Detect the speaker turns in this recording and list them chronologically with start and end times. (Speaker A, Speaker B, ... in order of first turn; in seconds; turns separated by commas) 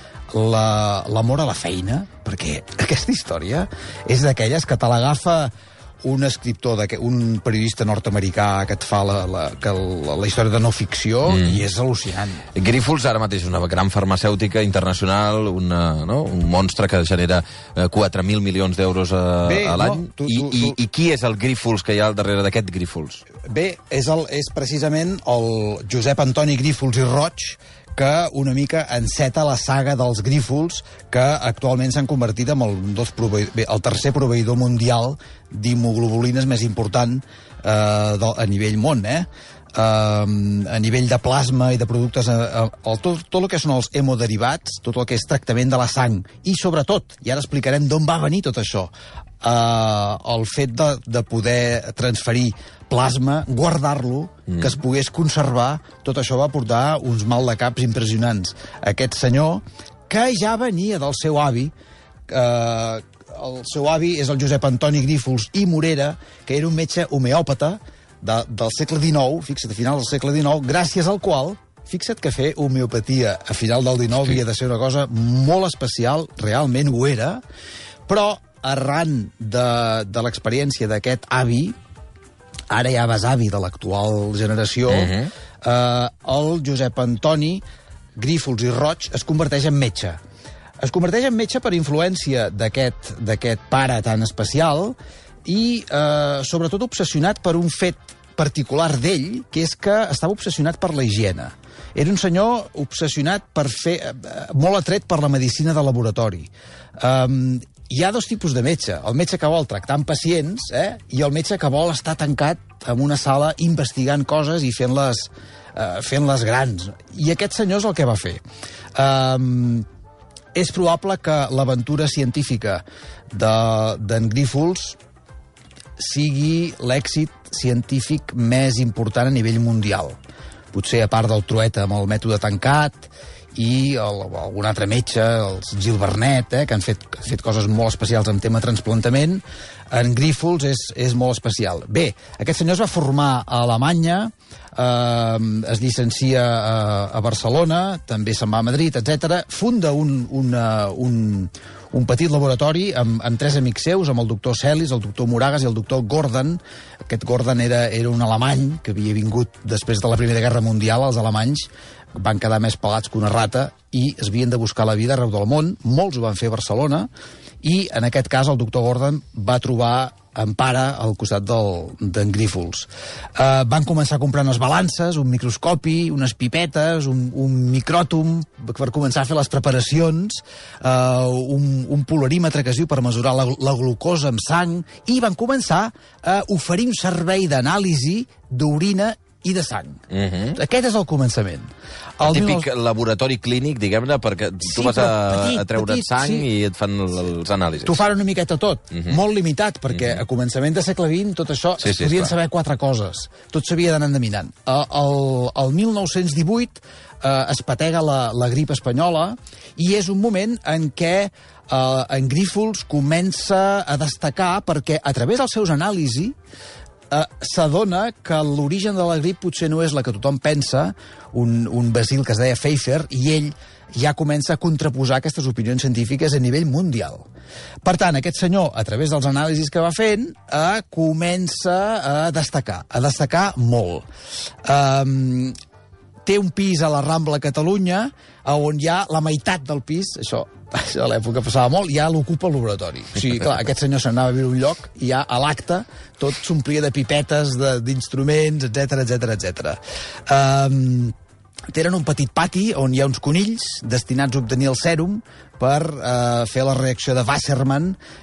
Speaker A: 0.3-5.5, Speaker A: 6.0-12.4, Speaker B: 11.3-11.6, Speaker B: 12.5-23.2, Speaker A: 19.4-20.8, Speaker A: 23.4-61.7, Speaker A: 62.3-77.4, Speaker A: 78.1-81.8, Speaker A: 82.7-87.6, Speaker B: 84.9-85.3, Speaker A: 88.2-90.2, Speaker A: 90.8-118.4, Speaker A: 118.9-119.8, Speaker A: 120.5-125.0, Speaker A: 126.0-130.2, Speaker A: 130.7-167.1, Speaker A: 167.6-190.0, Speaker B: 190.1-190.6, Speaker A: 190.5-192.7, Speaker B: 192.2-198.0, Speaker A: 194.6-196.4, Speaker A: 197.8-216.3, Speaker B: 199.9-200.2, Speaker B: 201.8-202.3, Speaker A: 217.1-227.3, Speaker A: 227.8-234.1, Speaker A: 234.6-235.6, Speaker A: 236.2-251.1, Speaker A: 251.7-258.0